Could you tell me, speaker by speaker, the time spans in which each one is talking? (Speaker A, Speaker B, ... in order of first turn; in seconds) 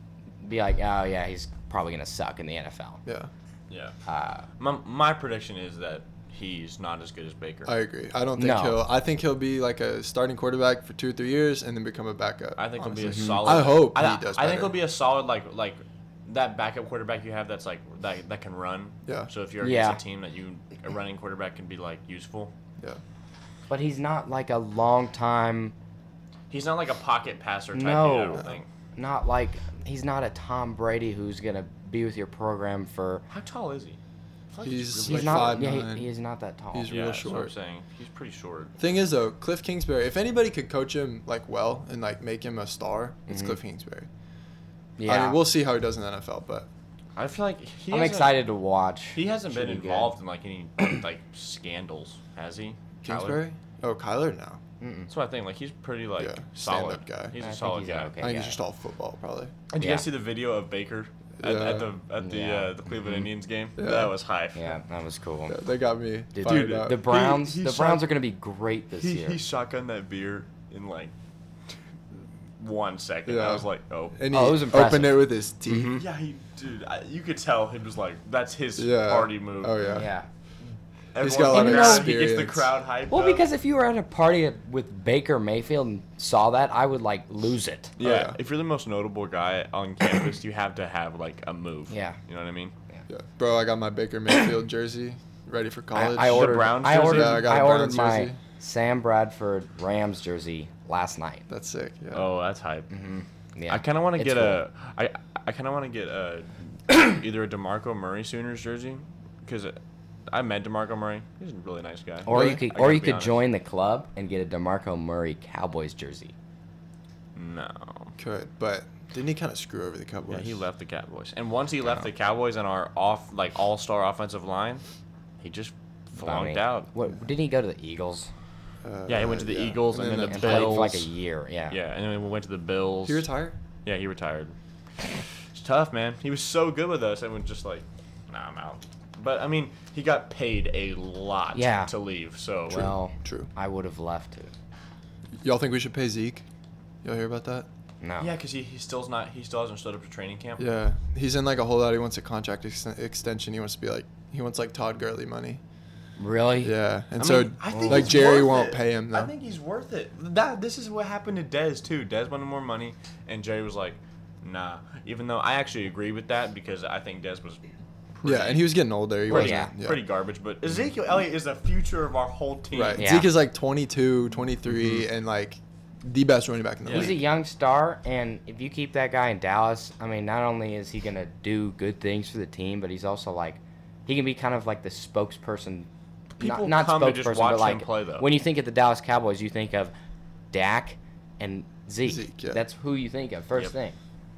Speaker A: 0.4-3.0, 4.0-4.5, 8.4-8.8, 13.0-13.5, 19.6-20.0, 23.7-25.7, 27.7-33.2, 35.1-36.9, 43.3-43.6, 45.0-45.4, 47.9-50.1, 54.8-55.1, 57.4-58.6, 59.8-60.1, 62.2-63.3, 64.5-65.5, 66.3-69.4, 74.3-76.0, 79.9-80.3, 81.5-82.2, 83.1-88.0, 91.9-92.2, 95.9-101.4, 102.9-104.6, 112.3-116.3, 126.2-128.3, 130.0-131.8, 141.5-141.9, 142.7-144.5, 148.0-148.3, 156.2-156.8, 157.7-158.3, 169.3-169.7, 173.0-173.3, 176.9-189.9, 190.5-194.0
Speaker B: 3.7-3.9, 4.6-7.7, 12.6-22.5, 26.5-28.7, 33.3-34.0, 34.5-35.7, 36.9-38.7, 47.1-48.4, 49.1-53.4, 55.1-58.1, 59.7-64.8, 66.4-68.1, 68.9-71.1, 72.6-74.2, 75.9-79.9, 81.1-83.5, 88.0-92.7, 96.2-97.5, 102.1-102.9, 103.7-109.8, 110.3-113.4, 117.3-118.1, 120.3-124.8, 125.4-126.9, 129.1-131.1, 131.7-133.2, 133.8-134.5, 135.5-142.9, 148.2-150.6, 157.2-168.7, 169.3-173.1, 176.8-177.1, 186.4-188.3
Speaker C: 7.7-14.8, 34.6-36.1, 36.7-37.5, 38.8-44.1, 45.0-46.7, 53.0-54.6, 56.2-57.4, 58.2-59.5, 61.4-61.9, 63.8-64.2, 65.5-67.0, 73.2-76.0, 78.8-80.1, 81.2-82.8, 88.0-88.3, 93.1-98.4, 101.5-102.3, 112.3-112.6, 118.2-120.6, 128.8-130.9, 133.1-133.6, 142.8-143.5, 145.4-146.4, 147.0-147.7, 150.6-155.6, 156.6-159.3, 168.2-170.0, 172.7-177.2, 192.0-192.6